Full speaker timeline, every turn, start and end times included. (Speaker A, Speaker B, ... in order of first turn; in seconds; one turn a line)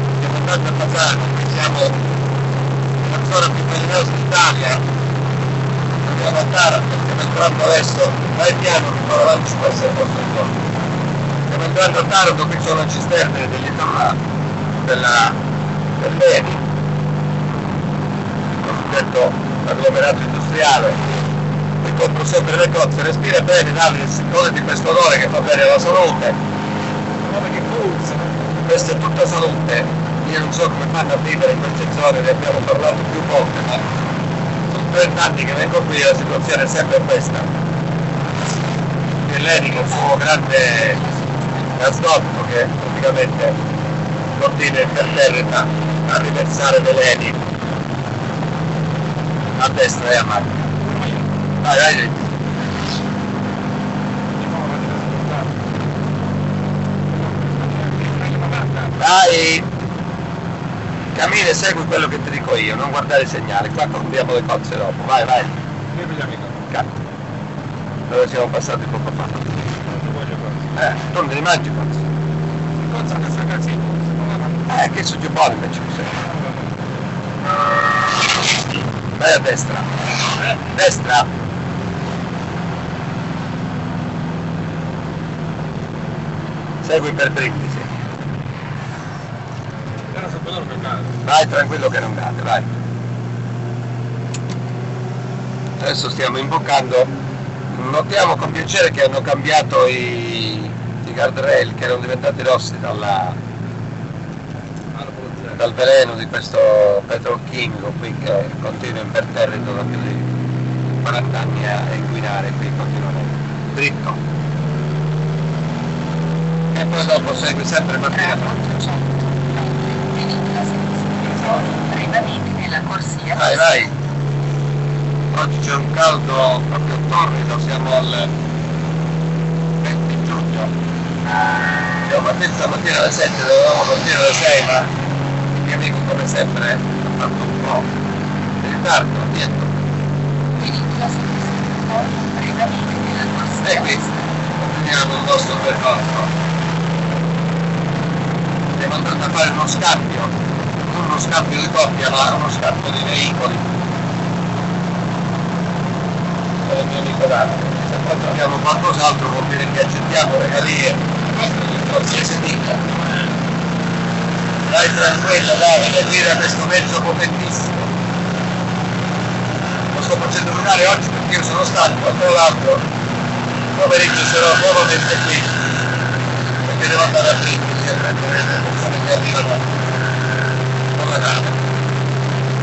Speaker A: 0.2-2.2
Speaker A: 3.0-4.8
Speaker A: 6.0-10.5
Speaker A: 11.5-14.2
Speaker A: 14.8-15.4
Speaker A: 16.0-16.6
Speaker A: 18.6-21.0
Speaker A: 21.8-26.4
Speaker B: 27.2-28.4
Speaker A: 28.6-33.9
Speaker A: 34.7-37.5
Speaker A: 39.2-41.0
Speaker A: 41.7-43.6
Speaker A: 44.4-47.4
Speaker A: 49.6-50.7
Speaker B: 50.8-51.2
Speaker A: 51.6-52.3
Speaker B: 54.4-55.5
Speaker B: 57.1-58.9
Speaker A: 58.9-59.6
Speaker A: 61.1-65.5
Speaker B: 65.9-66.6
Speaker A: 68.1-69.5
Speaker B: 69.9-70.6
Speaker A: 70.7-72.0
Speaker B: 72.8-74.7
Speaker A: 74.7-76.1
Speaker B: 76.2-76.7
Speaker A: 79.0-79.9
Speaker A: 80.5-81.3
Speaker A: 86.8-87.9
Speaker B: 90.1-91.2
Speaker A: 91.2-92.7
Speaker A: 95.8-97.1
Speaker A: 97.7-103.4
Speaker B: 104.9-105.6
Speaker A: 105.6-110.3
Speaker A: 111.0-114.2
Speaker A: 116.7-118.6
Speaker C: 118.3-123.5
Speaker A: 123.3-123.9
Speaker A: 125.3-128.3
Speaker A: 129.8-130.7
Speaker A: 132.0-134.9
Speaker A: 135.6-137.9
Speaker A: 138.6-139.7
Speaker C: 140.6-144.1
Speaker A: 143.6-144.0
Speaker A: 144.6-146.3
Speaker A: 148.8-153.7
Speaker A: 156.7-162.8
Speaker A: 164.7-167.9
Speaker A: 169.9-172.8
Speaker A: 173.7-175.5
Speaker A: 176.6-179.7
Speaker A: 180.9-181.6